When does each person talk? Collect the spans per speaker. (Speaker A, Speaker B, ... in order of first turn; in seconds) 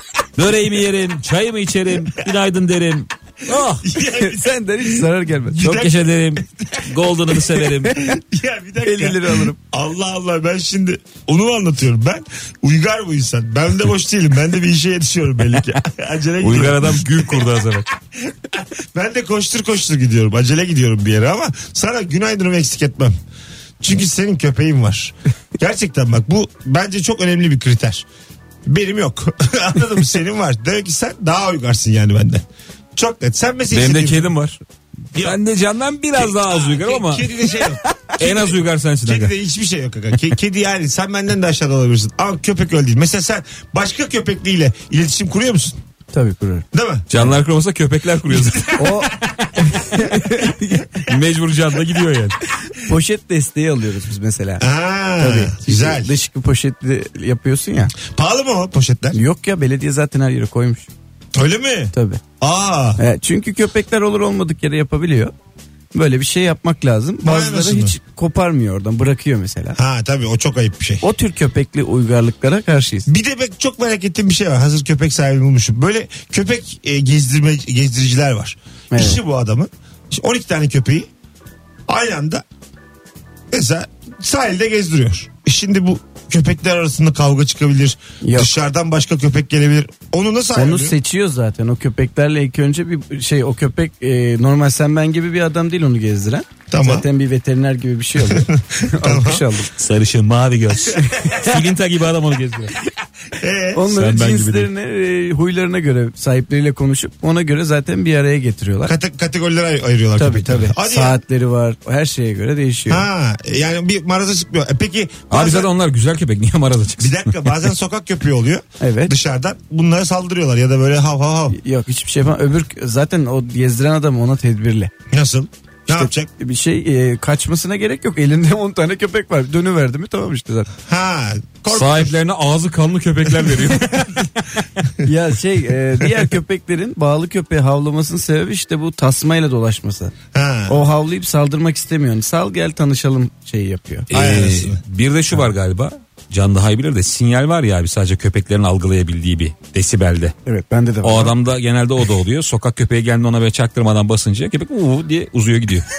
Speaker A: 0.4-3.9, 5.6-8.0, 16.4-17.9, 33.7-34.6, 35.1-37.3, 38.2-39.3, 47.1-48.9, 51.0-52.4, 99.8-102.7, 103.9-104.7, 115.3-117.3, 131.7-134.4, 144.1-150.3, 151.0-155.9
Speaker B: 3.6-4.5, 5.5-6.9, 8.0-17.5, 18.1-23.1, 23.8-28.0, 28.6-34.3, 36.1-45.8, 46.7-47.1, 48.4-49.6, 54.6-56.1, 58.0-59.2, 61.3-63.0, 67.2-68.0, 69.7-71.0, 73.1-81.1, 81.9-82.4, 83.5-91.0, 96.7-97.0, 98.2-99.5, 103.4-103.8, 108.8-111.2, 112.9-115.7, 117.0-121.6, 125.1-126.3, 130.8-132.1, 133.4-134.2, 140.3-140.8, 144.1-144.8
Speaker C: 4.0-5.7, 7.8-8.2, 8.8-9.6, 46.1-46.6, 48.8-51.0, 52.7-54.6, 55.2-57.9, 59.1-60.9, 61.9-62.2, 63.0-65.3, 65.9-69.8, 71.0-73.1, 78.9-79.2, 88.2-88.5, 90.5-99.7, 103.7-108.9, 110.2-113.0, 118.8-119.1, 121.5-124.9, 125.9-130.7, 135.0-140.1, 140.7-144.1, 150.4-151.3